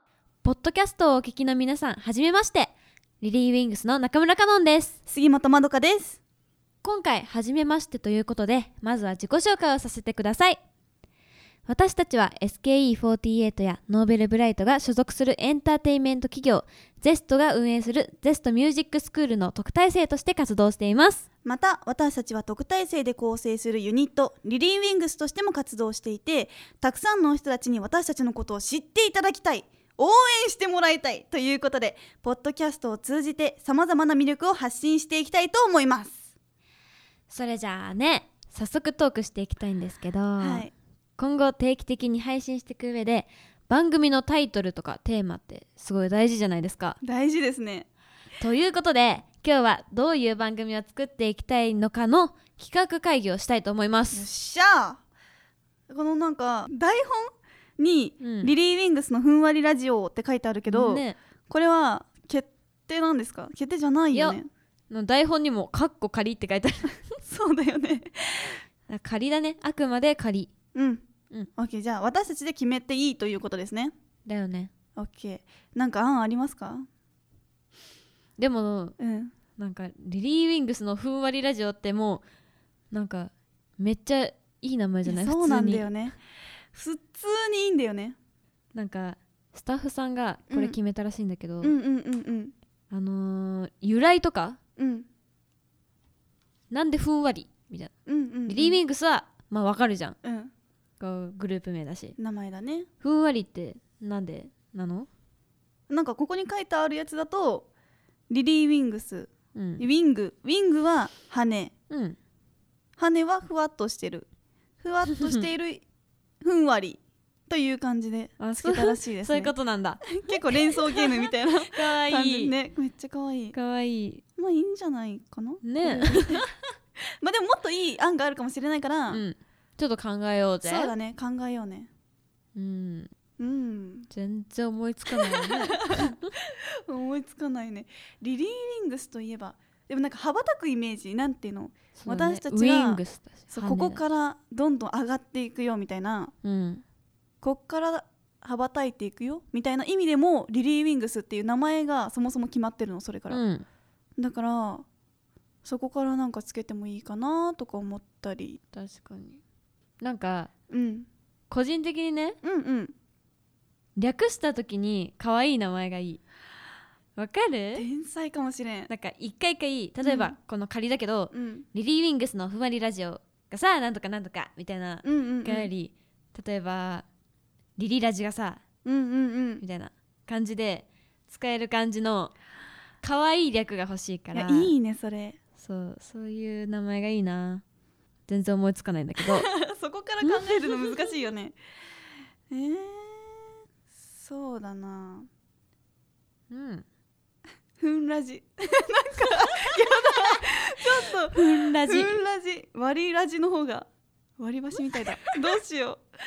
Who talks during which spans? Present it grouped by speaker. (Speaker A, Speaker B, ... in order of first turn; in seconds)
Speaker A: 0.4-5.0, 6.8-10.6, 11.7-21.2, 37.3-47.0, 48.4-54.3, 58.2-58.5, 60.7-61.2, 64.1-64.4, 64.9-67.0, 68.9-70.5, 74.3-74.7, 78.4-79.0, 79.6-82.2, 82.9-85.9, 88.7-91.8, 92.9-94.6, 96.7-97.9, 98.5-100.2, 101.0-102.2, 103.0-105.1, 109.5-109.8, 111.9-112.2, 118.4-122.5, 123.5-124.2, 125.6-126.4, 129.1-130.9, 132.6-133.1, 134.1-136.3, 141.9-144.0, 146.4-146.8, 153.3-153.7, 158.7-159.4, 160.0-160.5, 161.5-162.4, 164.0-166.2, 167.2-167.9, 168.9-177.1, 177.8-178.6, 179.6-182.3, 183.0-184.7, 185.6-187.6, 188.3-189.5, 190.2-191.1, 196.5-196.8, 201.3-202.2
Speaker B: 5.1-6.2, 21.4-36.3, 40.4-40.7, 47.0-47.9, 54.1-55.0, 55.9-64.5, 67.2-68.6, 70.8-71.0, 71.6-73.9, 75.0-76.9, 79.0-79.3, 85.1-86.2, 86.7-88.2, 90.5-90.8, 91.6-92.5, 94.8-95.1, 98.1-98.8, 100.2-100.5, 102.2-102.9, 105.9-107.7, 108.3-111.7, 113.0-114.3, 114.8-115.8, 116.4-119.5, 120.1-123.5, 124.4-126.5, 127.2-129.2, 130.6-131.9, 133.4-134.1, 135.1-146.3, 147.4-153.4, 154.2-154.9, 155.6-158.6, 160.7-161.1, 162.4-162.9, 167.8-168.9, 170.0-170.3, 171.3-171.7, 175.0-175.7, 178.8-179.6, 184.3-185.4, 189.2-191.6, 192.5-195.3, 197.8-206.0